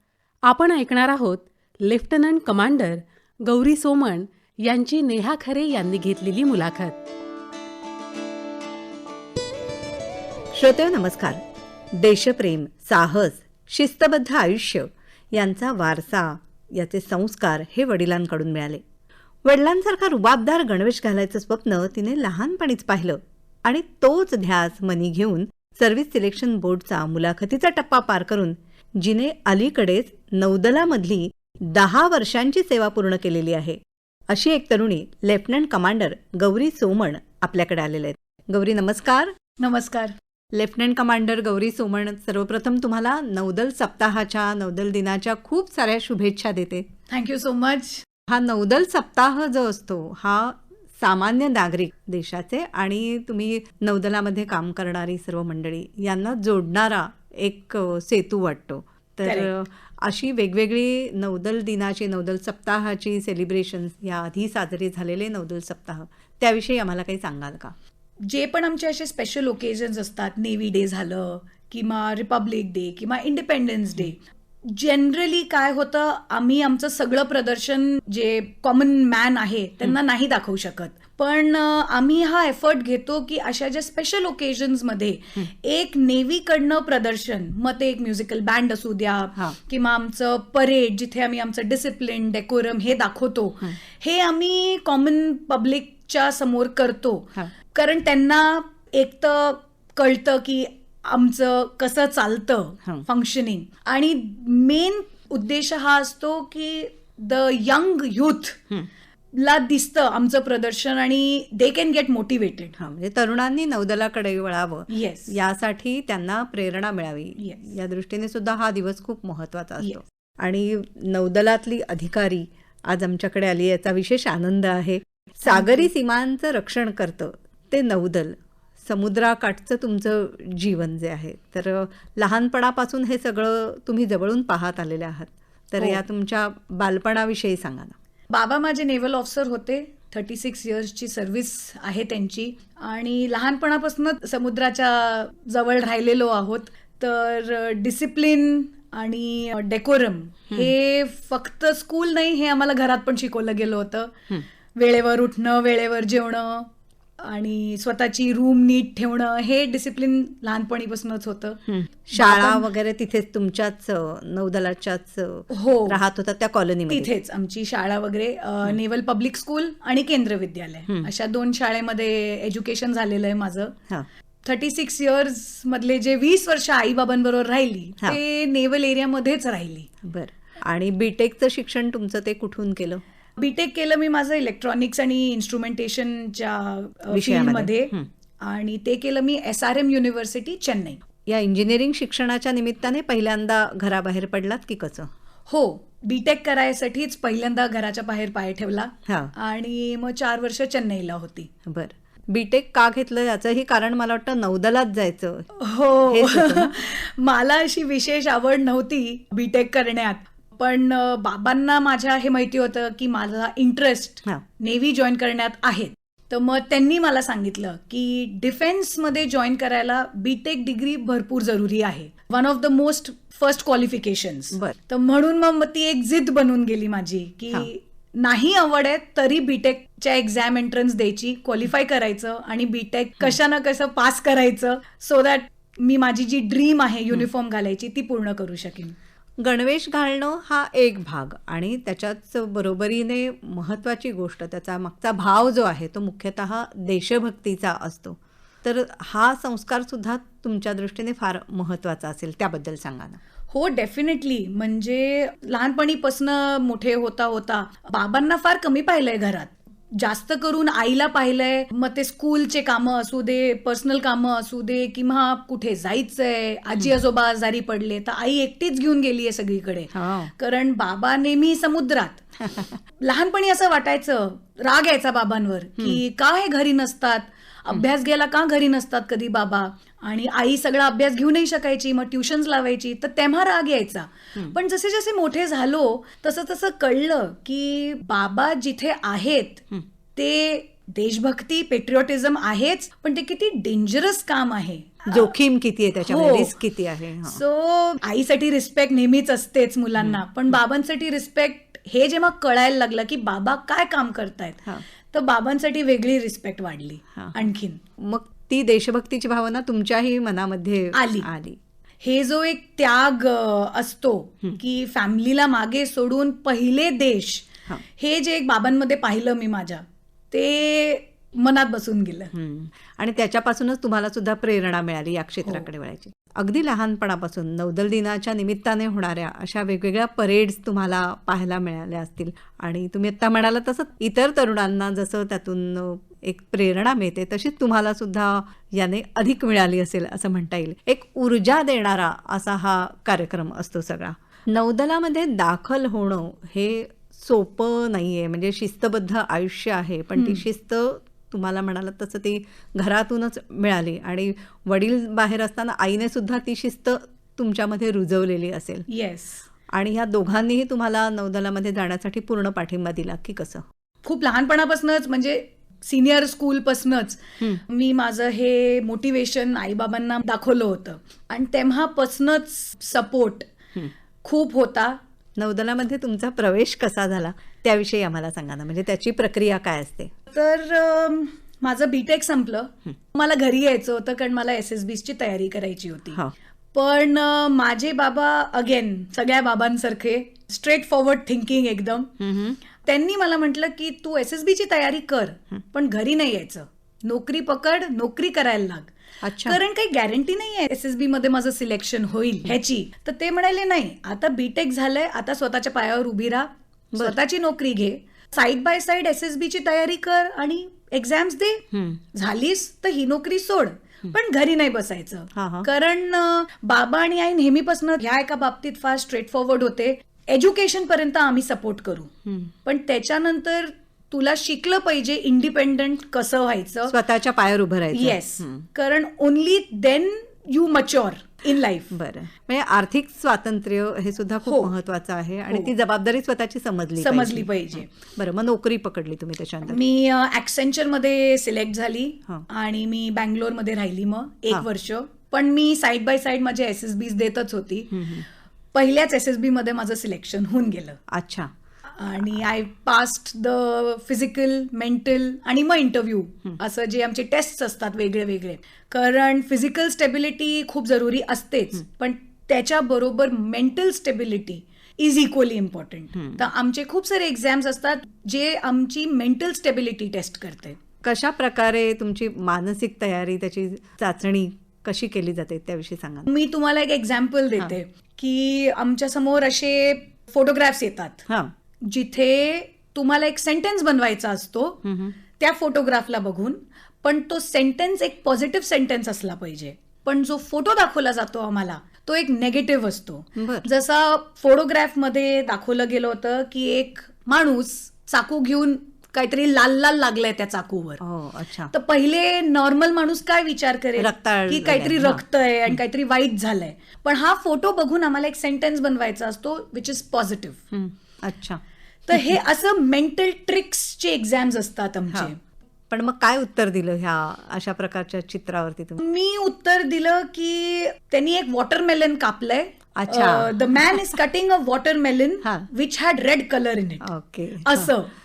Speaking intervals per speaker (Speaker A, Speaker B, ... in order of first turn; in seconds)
Speaker A: 0.5-7.0
Speaker B: 10.5-11.4, 11.9-18.8, 19.4-33.8, 34.3-39.3, 40.5-46.9, 48.3-67.8, 112.8-137.9, 161.7-167.1, 180.0-183.0, 187.1-188.1, 191.3-195.1, 199.1-199.3, 201.7-205.5, 206.1-206.8, 239.4-253.2, 269.9-270.3, 272.4-272.8, 295.1-297.4, 308.0-311.6, 322.3-358.9, 359.7-363.7, 375.4-380.1, 392.2-392.6, 399.2-399.6, 411.7-412.0, 415.3-415.7, 422.3-422.5, 426.9-428.7, 431.9-439.8, 447.9-448.2, 451.1-451.5, 466.2-466.4, 471.0-476.3, 481.3-481.5, 484.8-485.1, 493.4-493.7, 501.0-501.7, 504.0-505.8, 510.7-512.4, 515.9-519.0, 523.0-524.2, 527.0-528.0
Speaker C: 39.6-40.2, 47.1-48.0, 59.2-59.5, 68.3-108.6, 109.3-112.8, 114.9-115.3, 117.4-117.7, 125.5-125.9, 138.3-161.6, 162.1-162.7, 165.5-166.0, 166.9-173.8, 174.4-179.9, 183.4-191.0, 195.5-201.5, 205.6-239.0, 253.5-272.3, 273.0-289.6, 290.2-295.3, 296.0-296.6, 297.3-307.8, 310.9-311.3, 312.0-322.3, 350.1-350.4, 358.9-359.5, 364.1-373.5, 374.2-375.0, 380.3-386.2, 386.7-392.2, 392.7-422.1, 422.6-427.0, 427.9-431.9, 434.4-434.7, 437.0-437.9, 439.6-451.0, 452.0-470.8, 476.3-481.2, 481.9-501.0, 501.7-510.6, 512.1-515.4, 519.0-527.1, 527.6-528.1